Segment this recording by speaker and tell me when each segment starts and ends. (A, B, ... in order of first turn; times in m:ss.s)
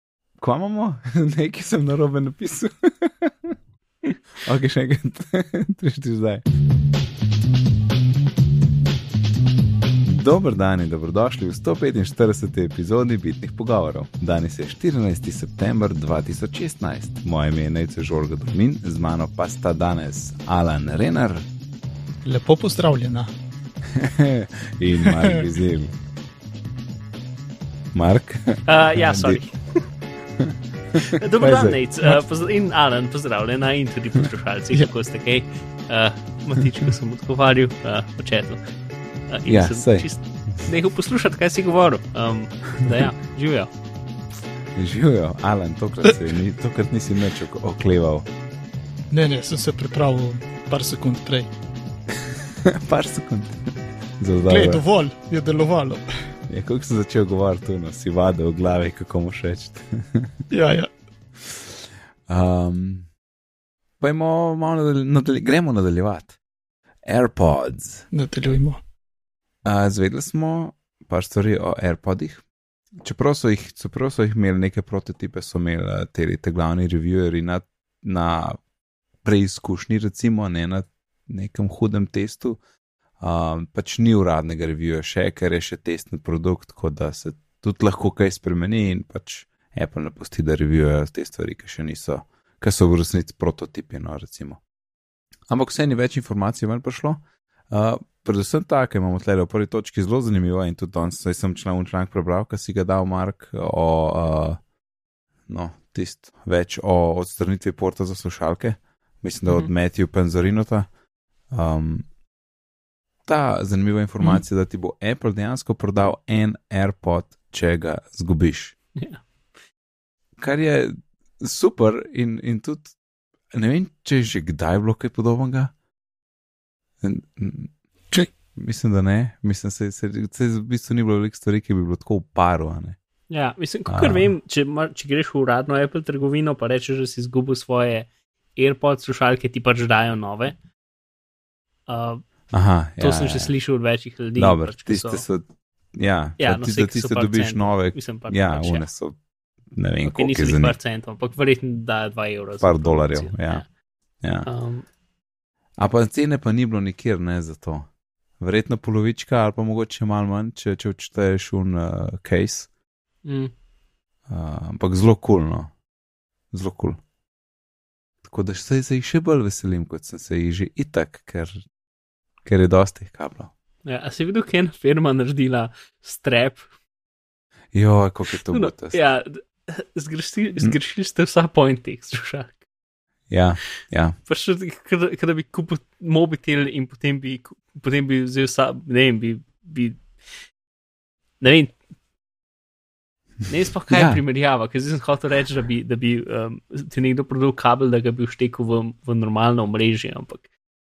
0:00.4-0:03.5 A
0:04.4-0:06.4 A
0:10.0-0:21.5 A
0:22.2-0:23.3 B
0:23.9-0:25.9 A
0:25.0-0:25.4 B
0:27.9-0:29.4 A
0:28.6-0:29.6 C
0:30.4-0:31.8 A
0:31.1-0:38.6 C
0:39.3-0:43.7 C
0:39.4-0:40.1 A
0:44.7-0:48.2 A
0:49.1-0:51.5 B
0:52.8-0:54.8 A
0:54.5-0:56.1 B
0:56.5-1:00.3 A
1:00.5-1:00.9 B
1:02.3-1:03.1 A
1:04.0-1:06.4 A
1:07.0-1:08.1 A
1:08.1-1:08.8 B
1:09.6-1:12.4 A
1:13.0-1:18.6 A
1:19.2-1:22.6 A
1:23.2-1:34.6 A
1:35.5-1:44.6 A
1:45.5-1:50.9 A
1:51.5-1:52.1 A
1:53.2-1:58.8 A
1:59.0-1:59.2 C
2:00.4-2:02.9 A
2:03.5-2:05.7 A
2:07.0-2:07.7 A
2:08.5-2:13.0 A
2:13.3-2:20.6 C
2:13.9-2:14.3 A
2:21.9-2:22.2 C
2:22.5-2:23.5 A
2:23.0-2:25.2 C
2:24.4-2:29.2 A
2:26.4-2:28.8 C
2:29.7-2:30.8 A
2:30.1-2:33.6 C
2:32.6-2:33.6 A
2:34.2-2:34.5 A
2:34.4-2:34.8 C
2:35.8-2:37.9 A
2:38.4-2:42.7 A
2:43.2-2:43.5 C
2:44.3-2:45.7 A
2:46.5-2:47.0 A
2:48.2-2:51.6 A
2:52.4-2:53.5 A
2:53.8-2:56.6 C
2:57.7-2:59.0 A
2:58.3-3:02.6 C
3:03.3-3:04.2 A
3:04.3-3:10.0 C
3:11.4-3:11.7 C
3:13.5-3:20.4 C
3:13.9-3:14.2 A